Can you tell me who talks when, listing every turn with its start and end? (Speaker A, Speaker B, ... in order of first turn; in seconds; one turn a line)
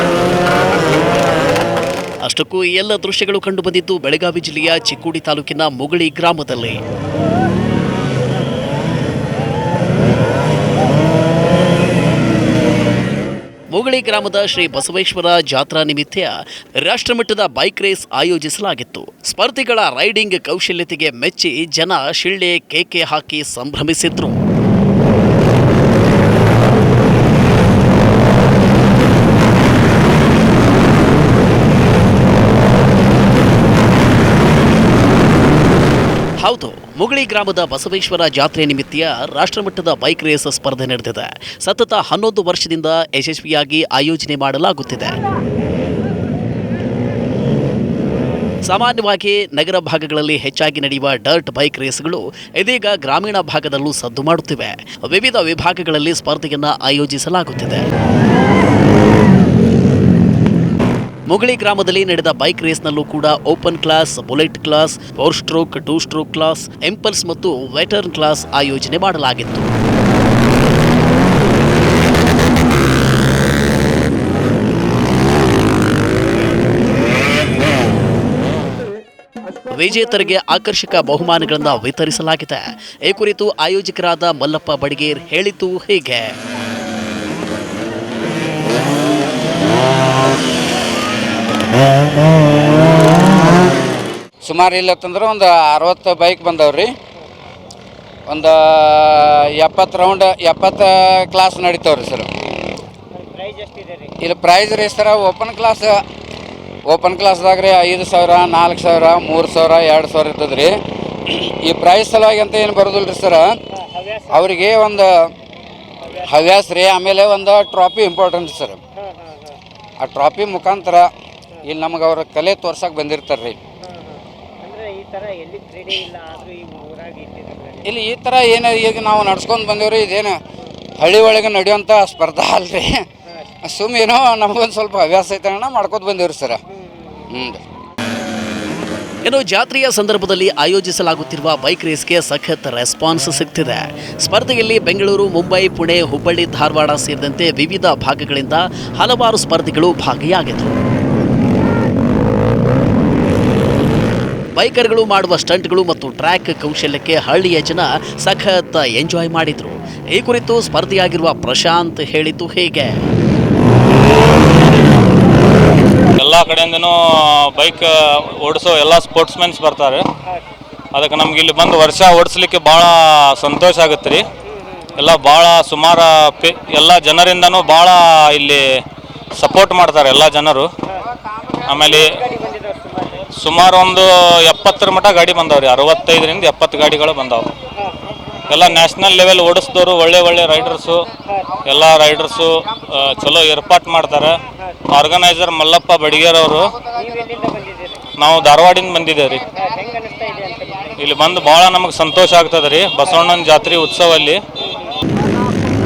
Speaker A: 2.2-6.8
Speaker A: 13.7-24.4
Speaker A: 36.4-45.2
Speaker A: 48.6-57.9
Speaker A: 61.3-69.7
Speaker A: 79.7-86.3
Speaker B: 94.4-96.9
Speaker B: 98.3-102.3
Speaker C: 103.1-104.1
Speaker B: 104.2-106.0
Speaker B: 106.9-110.7
Speaker B: 111.3-113.5
Speaker C: 113.8-114.3
Speaker B: 114.3-115.1
Speaker B: 116.2-118.8
Speaker C: 119.2-119.5
Speaker B: 120.0-121.1
Speaker B: 121.6-123.6
Speaker C: 123.9-127.8
Speaker B: 127.8-130.4
Speaker B: 131.0-133.0
Speaker B: 133.6-136.6
Speaker B: 137.3-137.6
Speaker A: 139.2-150.7
Speaker A: 154.6-163.0
Speaker D: 166.2-170.1
Speaker D: 170.9-174.2
Speaker D: 174.9-178.8
Speaker D: 179.3-180.7
Speaker D: 181.6-182.2
Speaker C: 182.0-183.2
Speaker D: 183.3-187.5
Speaker D: 188.5-191.1
Speaker D: 191.6-196.8
Speaker C: 196.9-198.0
Speaker D: 198.2-199.4
Speaker C: 199.6-200.9
Speaker D: 200.9-204.4